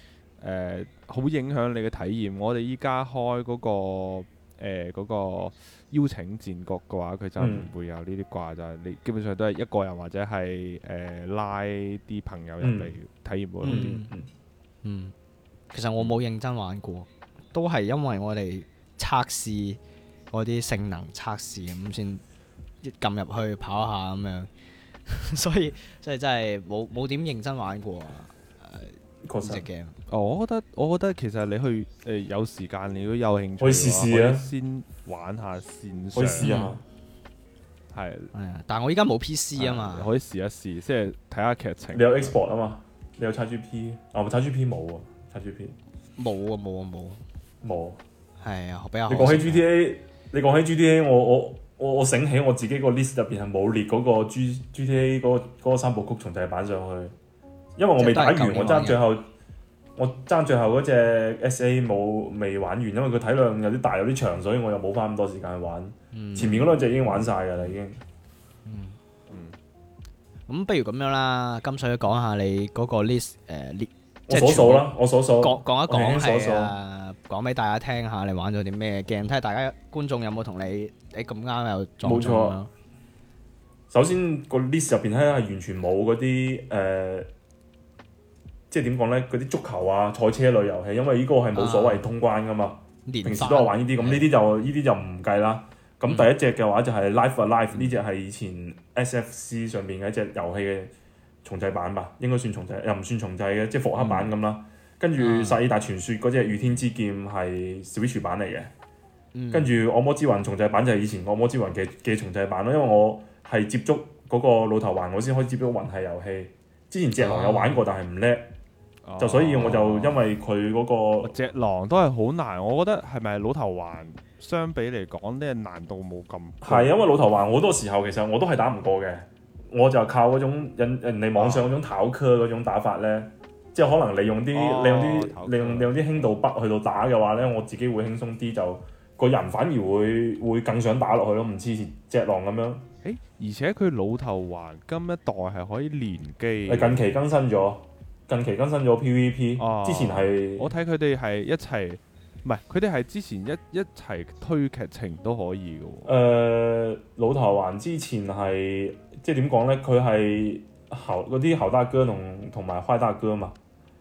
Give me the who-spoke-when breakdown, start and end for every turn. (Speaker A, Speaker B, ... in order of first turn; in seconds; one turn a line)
Speaker A: 0.4-13.9
Speaker B: 7.4-7.7
Speaker B: 12.6-12.9
Speaker B: 13.6-14.3
Speaker C: 13.6-14.1
Speaker C: 14.8-15.1
Speaker C: 15.7-19.8
Speaker C: 20.3-22.2
Speaker C: 22.8-24.5
Speaker C: 25.1-29.9
Speaker B: 29.2-29.6
Speaker A: 30.1-36.5
Speaker B: 33.6-34.4
Speaker B: 36.1-36.8
Speaker C: 36.4-36.8
Speaker A: 37.9-38.3
Speaker C: 38.3-40.1
Speaker A: 39.6-42.3
Speaker B: 41.9-45.8
Speaker C: 46.2-47.2
Speaker B: 47.6-48.0
Speaker C: 48.4-49.6
Speaker B: 49.1-57.1
Speaker B: 57.8-59.3
Speaker C: 58.0-59.0
Speaker B: 60.0-68.0
Speaker C: 66.1-66.7
Speaker A: 67.0-67.8
Speaker C: 68.7-69.0
Speaker A: 69.3-69.5
Speaker C: 70.5-82.7
Speaker B: 74.3-76.7
Speaker B: 82.0-82.6
Speaker B: 83.9-87.3
Speaker B: 88.7-100.9
Speaker C: 91.5-92.0
Speaker C: 93.1-94.3
Speaker B: 101.4-108.7
Speaker A: 104.0-104.3
Speaker C: 105.2-105.6
Speaker C: 109.3-109.7
Speaker B: 109.5-118.5
Speaker C: 117.2-117.8
Speaker A: 119.0-120.3
Speaker B: 119.2-121.3
Speaker A: 121.2-126.9
Speaker B: 126.6-142.8
Speaker A: 131.3-131.7
Speaker A: 134.5-136.3
Speaker A: 143.0-147.1
Speaker B: 146.7-150.7
Speaker A: 149.6-156.1
Speaker B: 156.0-163.6